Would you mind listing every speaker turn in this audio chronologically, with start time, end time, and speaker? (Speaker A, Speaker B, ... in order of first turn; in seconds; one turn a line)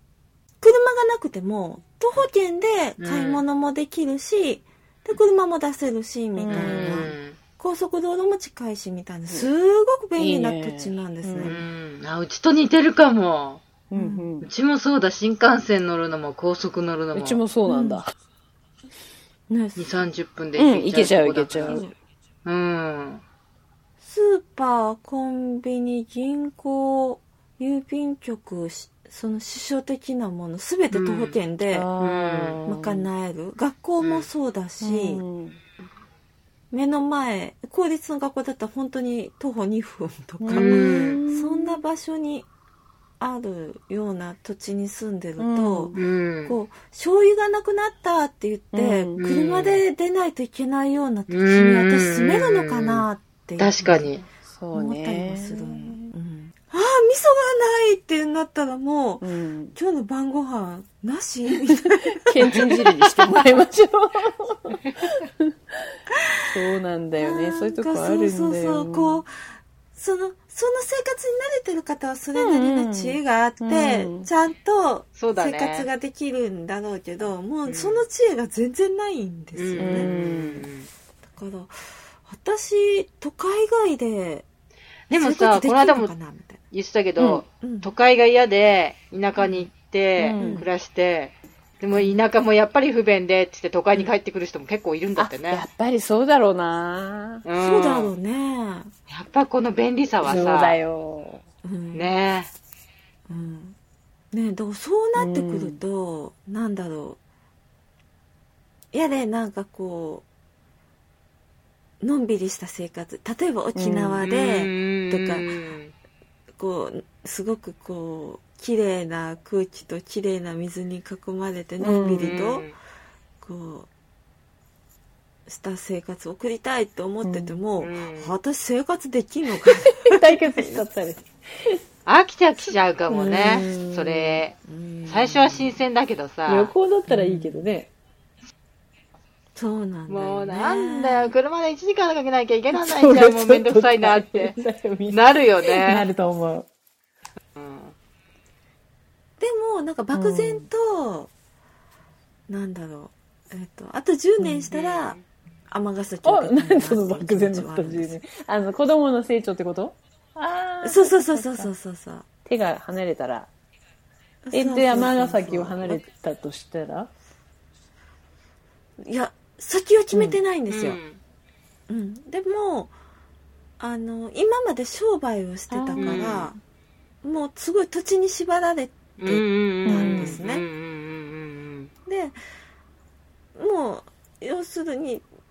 Speaker A: 0.6-11.6
Speaker B: 3.0-3.4
Speaker C: 6.4-7.1
Speaker B: 6.4-7.4
Speaker C: 10.2-11.6
Speaker B: 11.4-13.6
Speaker C: 13.9-14.5
Speaker A: 13.9-14.3
Speaker B: 14.4-17.4
Speaker C: 17.1-18.1
Speaker A: 17.7-18.0
Speaker A: 19.5-20.1
Speaker B: 19.8-21.8
Speaker C: 20.6-21.9
Speaker A: 21.7-21.9
Speaker B: 22.4-23.2
Speaker A: 24.0-31.9
Speaker B: 30.9-31.4
Speaker C: 31.7-33.1
Speaker B: 32.0-32.6
Speaker A: 32.6-35.2
Speaker B: 34.0-34.3
Speaker C: 34.8-35.6
Speaker A: 36.7-42.5
Speaker C: 40.4-41.8
Speaker B: 40.5-41.2
Speaker A: 43.2-54.1
Speaker C: 45.4-46.0
Speaker B: 45.9-46.6
Speaker C: 48.7-49.2
Speaker B: 49.2-49.8
Speaker B: 51.3-53.1
Speaker B: 53.6-54.2
Speaker C: 53.8-56.0
Speaker A: 54.7-63.4
Speaker C: 59.2-59.8
Speaker C: 62.2-65.3
Speaker C: 66.5-69.2
Speaker A: 67.2-69.3
Speaker A: 69.9-80.1
Speaker C: 72.3-74.3
Speaker B: 75.1-75.9
Speaker B: 77.6-78.0
Speaker B: 79.5-80.9
Speaker C: 79.8-80.7
Speaker A: 81.2-81.7
Speaker A: 82.2-84.4
Speaker B: 85.1-86.1
Speaker A: 85.1-86.6
Speaker B: 86.7-95.7
Speaker C: 87.2-87.4
Speaker A: 87.6-87.9
Speaker A: 89.4-90.7
Speaker C: 90.2-90.7
Speaker C: 95.2-97.4
Speaker B: 97.4-98.1
Speaker A: 97.6-98.9
Speaker B: 99.1-100.8
Speaker C: 100.2-101.4
Speaker A: 101.6-102.1
Speaker B: 101.9-102.5
Speaker A: 103.3-103.8
Speaker A: 104.3-107.2
Speaker C: 105.2-105.8
Speaker A: 108.9-110.2
Speaker A: 112.0-115.5
Speaker C: 113.7-114.2
Speaker B: 114.2-115.9
Speaker A: 116.6-122.7
Speaker C: 121.8-122.3
Speaker B: 122.2-122.8
Speaker A: 123.4-123.9
Speaker A: 125.5-130.8
Speaker C: 127.2-127.6
Speaker B: 127.8-128.3
Speaker C: 129.7-131.8
Speaker B: 132.1-136.7
Speaker A: 133.1-133.7
Speaker C: 133.4-134.4
Speaker A: 134.6-135.8
Speaker C: 136.4-137.9
Speaker A: 137.1-137.7
Speaker A: 139.6-141.3
Speaker B: 140.1-144.6
Speaker C: 142.7-146.7
Speaker B: 145.1-146.1
Speaker B: 147.6-147.9
Speaker A: 149.4-151.3
Speaker C: 150.1-150.7
Speaker A: 152.5-155.2
Speaker C: 154.4-154.7
Speaker B: 154.7-155.2
Speaker A: 155.7-158.2
Speaker C: 156.2-161.7
Speaker A: 160.8-162.2
Speaker C: 162.4-163.5
Speaker A: 164.4-166.0
Speaker C: 164.5-167.1
Speaker A: 169.0-171.0
Speaker C: 170.1-170.4
Speaker B: 170.7-171.2
Speaker A: 171.9-172.9
Speaker A: 173.8-176.6
Speaker C: 175.7-176.2
Speaker B: 176.0-176.5
Speaker A: 177.2-180.6
Speaker B: 179.2-181.9
Speaker C: 179.8-180.4
Speaker A: 182.1-182.4
Speaker A: 183.6-185.2